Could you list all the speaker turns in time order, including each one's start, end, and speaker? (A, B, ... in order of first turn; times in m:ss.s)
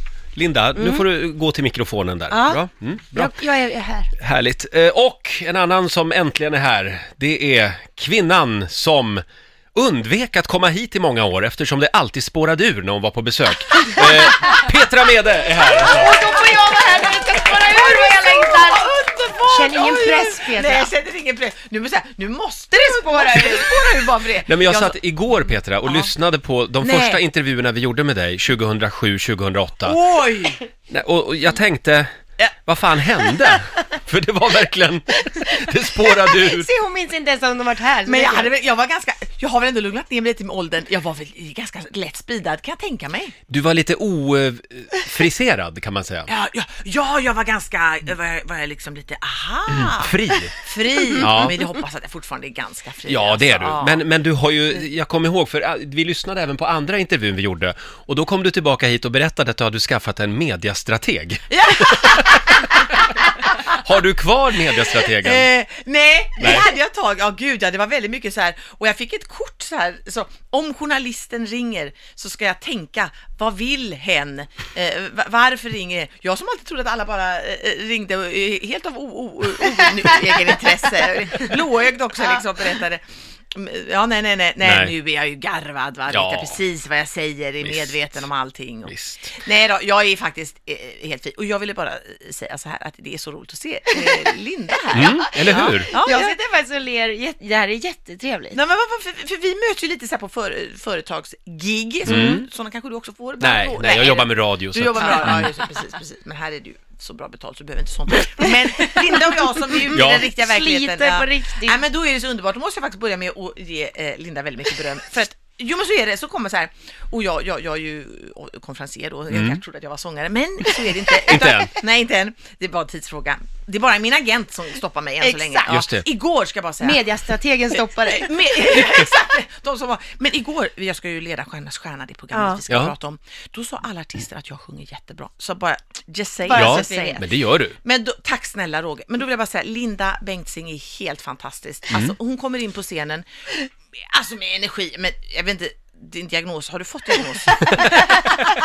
0:00.3-0:03.3 A
0:00.8-0:01.0 B
0:02.3-0:04.1 B
0:04.2-0:09.2 A
0:09.7-0:16.4 A
0:15.6-0:18.9 B
0:16.0-0:26.1 C
0:19.5-0:20.9 B
0:22.7-0:23.8 B
0:24.4-0:30.0 A
0:26.8-0:27.2 C
0:29.8-0:30.6 C
0:30.9-0:32.1 A
0:32.6-0:36.7 A
0:36.1-0:38.5 B
0:38.0-0:43.3 C
0:43.5-0:46.3 A
0:46.3-0:54.0 C
0:49.7-0:50.5 A
0:51.2-0:51.6 A
0:53.1-1:02.4 A
1:01.5-1:02.8 C
1:03.8-1:05.5 A
1:05.0-1:36.4 C
1:06.4-1:06.6 A
1:24.6-1:24.9 A
1:26.1-1:26.6 A
1:27.6-1:28.1 A
1:28.8-1:29.3 A
1:34.9-1:35.9 A
1:35.9-1:38.6 B
1:38.5-2:07.0 C
1:42.0-1:42.4 A
1:43.4-1:45.5 A
1:45.0-1:45.4 B
1:49.9-1:51.8 B
1:49.9-1:50.3 A
1:59.3-1:59.6 A
2:01.1-2:01.7 A
2:05.2-2:05.8 B
2:05.7-2:06.0 A
2:06.8-2:09.0 B
2:07.7-2:17.3 C
2:12.3-2:12.6 B
2:16.4-2:17.2 B
2:16.5-2:17.8 A
2:17.8-2:23.3 C
2:23.9-2:28.2 C
2:27.6-2:28.4 A